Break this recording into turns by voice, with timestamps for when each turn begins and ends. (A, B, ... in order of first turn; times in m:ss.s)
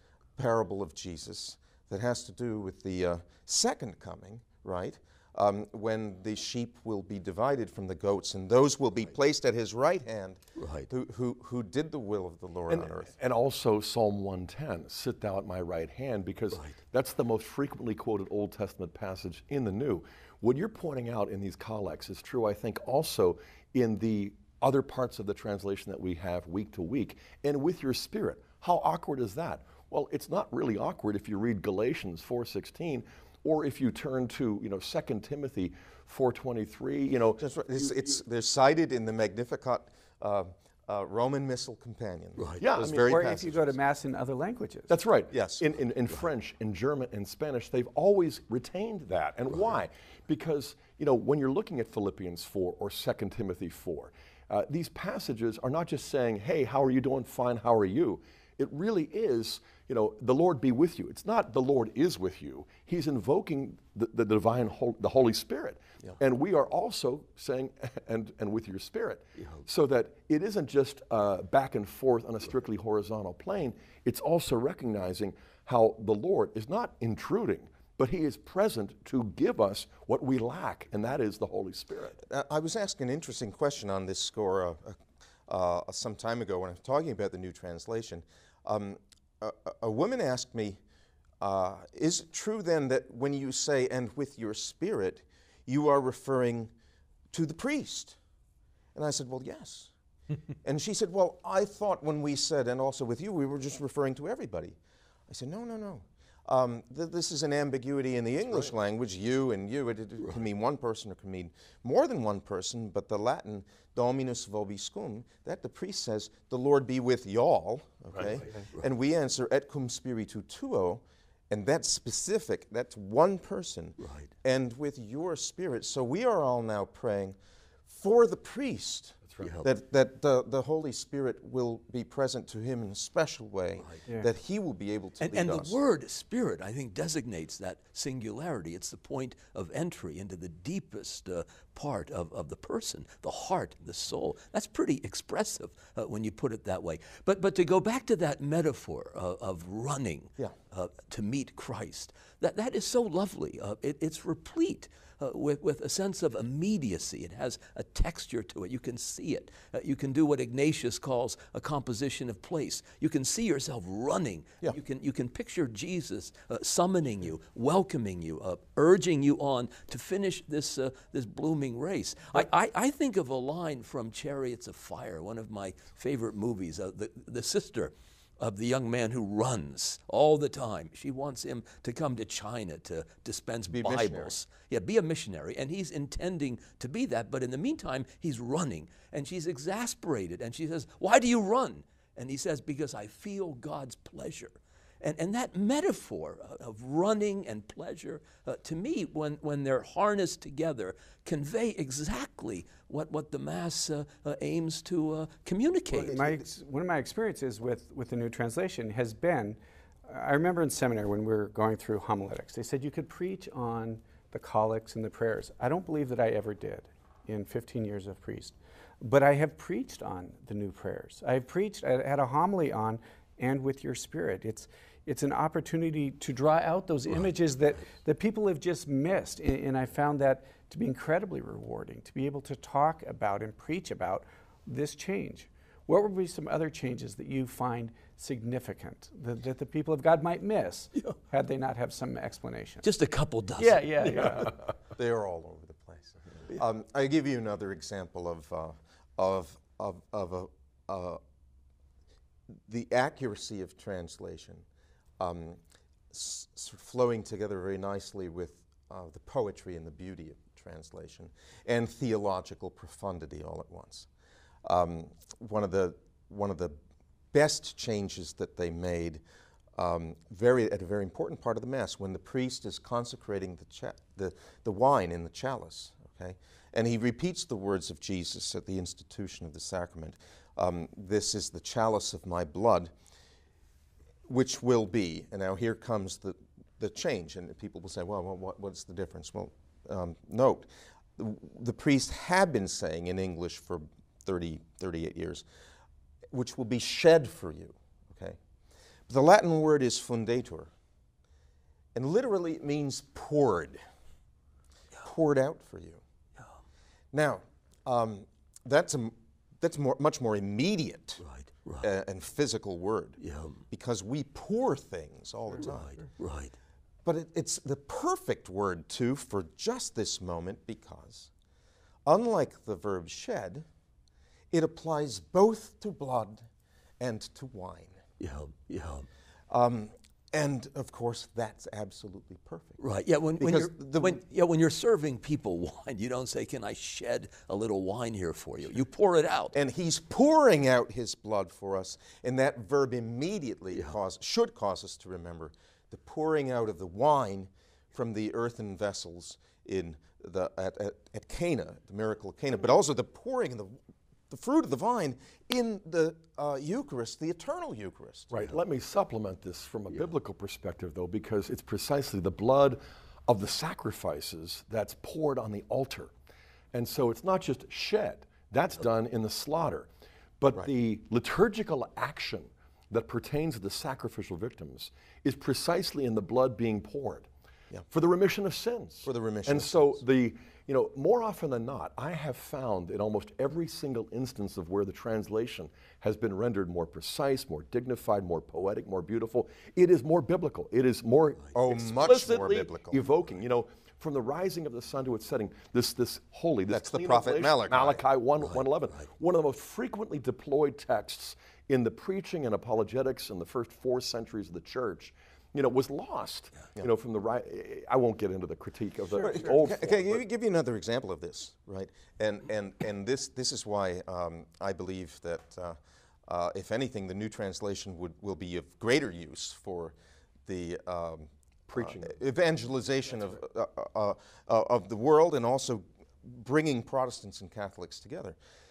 0:00.4-0:13.1 A
0:10.6-0:10.9 B
0:12.7-0:38.2 C
0:37.4-0:43.7 A
0:42.6-0:43.2 C
0:43.0-0:45.0 D
0:44.9-1:22.2 C
0:45.3-0:45.6 A
1:09.4-1:09.6 B
1:22.2-1:30.8 A
1:31.4-1:36.7 A
1:37.3-1:38.2 A
1:39.0-1:39.9 A
1:40.6-1:44.8 A
1:45.3-2:07.4 A
1:58.1-1:58.5 C
2:04.0-2:04.3 B
2:07.9-2:15.8 A
2:09.3-2:09.6 C
2:09.4-2:09.7 B
2:15.2-3:26.2 B
3:03.7-3:04.4 A
3:25.9-4:02.8 D
3:26.0-3:26.4 A
4:02.8-4:04.6 B
4:03.6-4:04.6 D
4:05.0-4:11.2 A
4:12.7-4:14.6 A
4:15.2-4:15.6 A
4:16.1-4:24.1 A
4:24.6-4:26.8 A
4:27.3-4:29.2 A
4:29.8-4:42.9 A
4:44.3-4:55.5 A
4:56.3-4:58.4 A
4:59.1-5:00.7 A
5:02.0-5:03.8 A
5:05.0-5:06.0 A
5:07.1-5:11.2 A
5:11.2-5:11.9 B
5:11.8-5:16.0 A
5:13.2-5:13.6 B
5:15.6-5:16.6 B
5:17.0-5:21.3 A
5:22.0-5:23.7 A
5:24.5-5:26.5 A
5:27.0-5:28.0 A
5:28.2-5:29.1 B
5:29.5-5:32.8 A
5:32.8-5:39.6 B
5:33.4-5:34.2 A
5:39.5-5:53.8 A
5:54.3-5:58.4 A
5:58.3-6:06.1 C
6:06.7-6:09.9 C
6:10.4-6:17.3 C
6:17.9-6:50.2 C
6:19.0-6:20.0 A
6:31.5-6:33.1 A
6:36.7-6:38.0 A
6:38.4-6:39.0 B
6:49.2-7:08.4 A
7:01.7-7:02.2 C
7:03.1-7:03.4 C